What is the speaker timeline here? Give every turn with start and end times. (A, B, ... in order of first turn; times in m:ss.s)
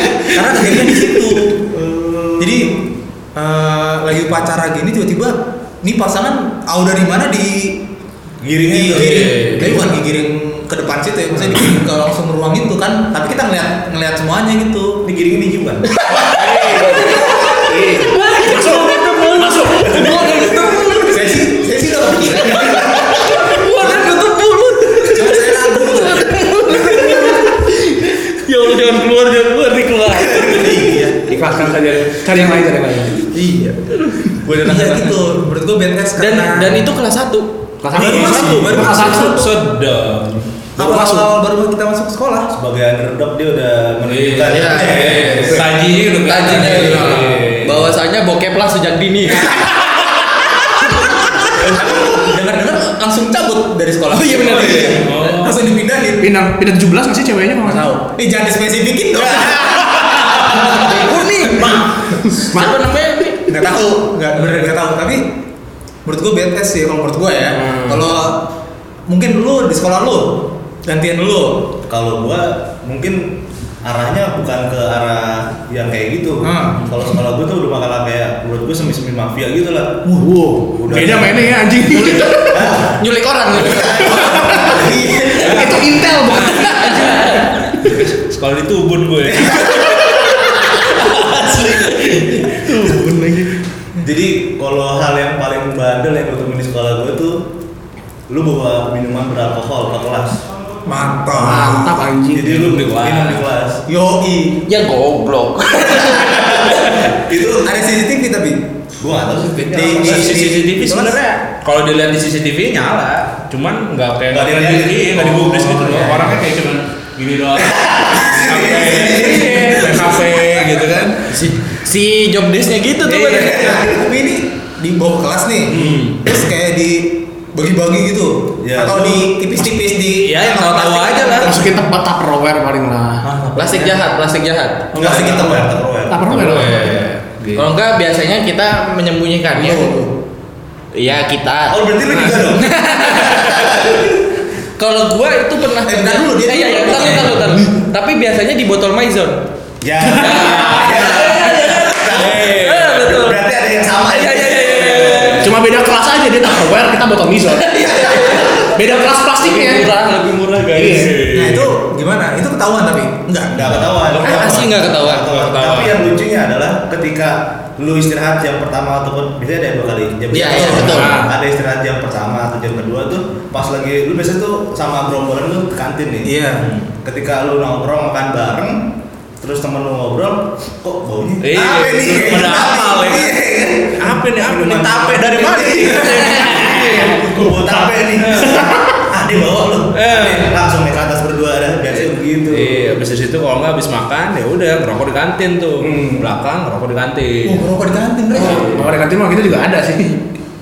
0:00.2-0:01.6 A
0:01.5-0:02.7 B
0:02.4-0:02.8 A
0:03.3-0:07.8 A
0:08.4-0:09.4 B
0:08.6-0:15.0 A
0:08.8-0:09.8 C
0:15.0-0:15.9 B
0:16.1-0:21.2 D
0:16.2-0:20.8 E
0:17.2-0:17.5 A
0:21.0-0:24.1 A
0:22.4-0:30.8 D
0:25.0-0:27.5 A
0:30.3-0:31.4 A
0:31.2-0:33.3 E
0:33.3-0:33.9 A
0:34.4-0:35.2 B
0:34.5-0:36.9 A
0:36.2-0:37.5 D
0:37.8-0:39.4 E
0:37.9-0:39.5 A
0:38.3-0:40.5 C
0:40.8-0:41.3 E
0:40.8-0:42.5 A
0:42.5-0:45.7 B
0:44.0-0:47.9 C
0:44.5-0:45.2 D
0:45.0-0:45.6 A
0:46.2-0:49.8 D
0:50.8-0:56.3 A
0:54.1-0:55.2 D
0:54.5-0:55.7 C
0:56.2-0:57.9 E
0:57.6-1:01.9 A
0:59.5-0:59.9 D
1:00.5-1:03.5 D
1:01.6-1:02.8 E
1:03.4-1:05.3 A
1:06.0-1:08.4 A
1:07.6-1:08.0 E
1:09.1-1:11.7 A
1:11.9-1:20.1 B
1:16.4-1:16.8 A
1:20.1-1:22.7 E
1:20.7-1:23.0 B
1:22.9-1:24.5 D
1:23.5-1:25.1 B
1:24.0-1:25.8 A
1:24.1-1:24.7 E
1:25.4-1:27.5 E
1:25.6-1:33.5 C
1:26.6-1:27.5 D
1:31.2-1:32.2 B
1:32.9-1:33.4 E
1:34.0-1:37.4 B
1:38.3-1:40.4 B
1:40.8-1:42.0 A
1:41.3-1:42.6 E
1:42.3-1:43.8 B
1:42.5-1:43.5 C
1:43.9-1:44.7 A
1:44.7-1:47.0 D
1:46.7-1:47.7 B
1:47.6-1:48.7 A
1:49.0-1:50.5 B
1:49.7-1:51.2 A
1:49.7-2:01.4 C
1:54.3-1:56.0 B
1:55.8-1:56.3 A
1:57.7-1:59.9 B
1:58.8-2:00.2 A
2:01.3-2:03.8 D
2:03.1-2:11.6 A
2:03.3-2:03.8 B
2:05.7-2:06.2 C
2:08.6-2:09.3 B
2:10.2-2:11.5 C
2:11.4-2:13.2 E
2:13.2-2:14.0 A
2:13.6-2:14.9 D
2:14.9-2:15.7 A
2:14.9-2:16.3 B
2:16.1-2:17.0 E
2:16.3-2:17.7 C
2:17.5-2:19.9 D
2:19.5-2:20.2 A
2:20.9-2:24.0 D
2:21.7-2:24.1 B
2:22.1-2:22.5 C
2:24.8-2:29.4 D
2:25.8-2:27.5 A
2:29.8-2:35.4 B
2:30.2-2:33.0 C
2:30.2-2:33.5 D
2:30.3-2:31.3 E
2:34.0-2:35.5 D
2:34.8-2:35.4 C
2:35.4-2:39.9 E
2:37.5-2:38.8 D
2:39.4-2:41.1 D
2:40.7-2:41.2 E
2:40.8-2:41.7 C
2:41.2-2:44.7 A
2:43.5-2:56.3 B
2:43.6-2:44.4 C
2:44.1-2:45.3 D
2:45.1-2:46.1 C
2:50.3-2:51.2 D
2:50.3-2:51.1 A
2:50.7-2:51.3 C
2:56.2-2:56.7 A
2:57.0-2:58.9 B
2:59.4-3:13.0 B
3:01.4-3:03.4 C
3:02.0-3:03.1 A
3:04.0-3:07.4 C
3:04.6-3:06.6 A
3:08.2-3:08.7 C
3:08.4-3:09.0 E
3:09.9-3:10.5 C
3:11.9-3:17.6 C
3:15.8-3:16.3 E
3:17.4-3:18.7 A
3:18.3-3:18.9 C
3:18.3-3:20.2 E